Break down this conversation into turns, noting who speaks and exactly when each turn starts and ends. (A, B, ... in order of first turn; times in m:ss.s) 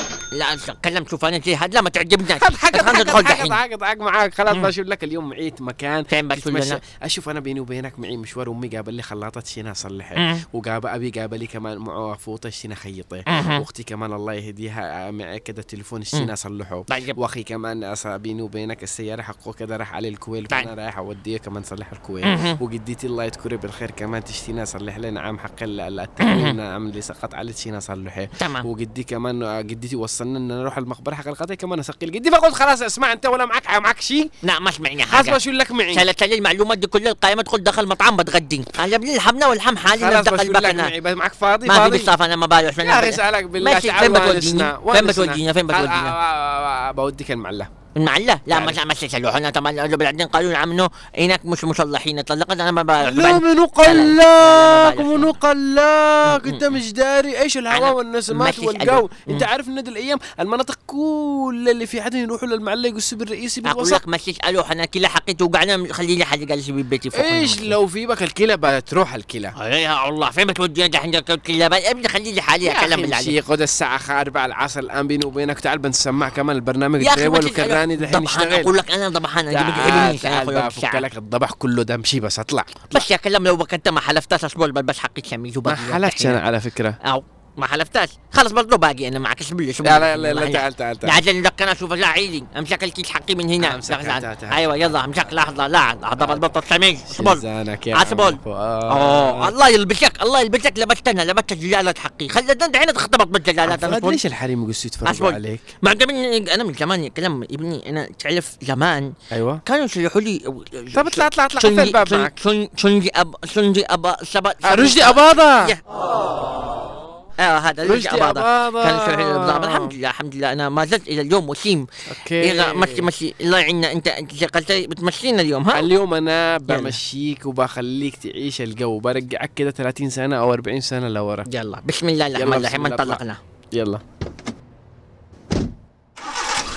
0:00.3-0:03.6 A
0:02.3-0:34.3 B
0:06.1-0:06.8 A
0:10.2-0:10.4 A
0:13.3-0:13.6 A
0:16.9-0:17.2 A
0:22.2-0:22.6 A
0:26.2-0:26.6 A
0:28.4-0:28.6 A
0:34.4-0:35.4 A
0:35.1-0:36.0 B
0:35.9-0:40.9 A
0:39.9-0:42.1 B
0:41.6-0:46.1 A
0:42.8-0:47.7 B
0:48.0-0:55.3 A
0:48.5-0:48.8 B
0:53.0-1:04.0 B
0:56.2-0:56.8 A
0:57.7-0:59.5 A
1:03.6-1:07.8 A
1:07.1-1:09.5 B
1:09.6-1:13.3 A
1:12.6-1:18.7 B
1:17.0-1:21.0 A
1:19.5-1:23.1 B
1:22.9-1:26.4 A
1:25.6-1:27.0 B
1:27.0-1:37.4 A
1:29.8-1:31.2 B
1:33.6-1:34.6 B
1:36.2-1:36.4 B
1:37.1-1:39.5 B
1:37.9-1:38.4 A
1:38.9-1:44.2 A
1:43.6-1:45.7 B
1:45.0-1:49.1 A
1:49.3-1:49.6 B
1:49.6-1:55.8 A
1:50.9-1:52.3 B
1:54.6-1:55.8 B
1:57.4-2:01.8 A
1:57.8-1:59.9 B
2:02.1-2:03.1 B
2:02.4-2:05.9 A
2:05.7-2:11.5 B
2:06.7-2:07.0 A
2:11.5-2:13.4 A
2:12.4-2:13.2 B
2:13.7-2:14.0 B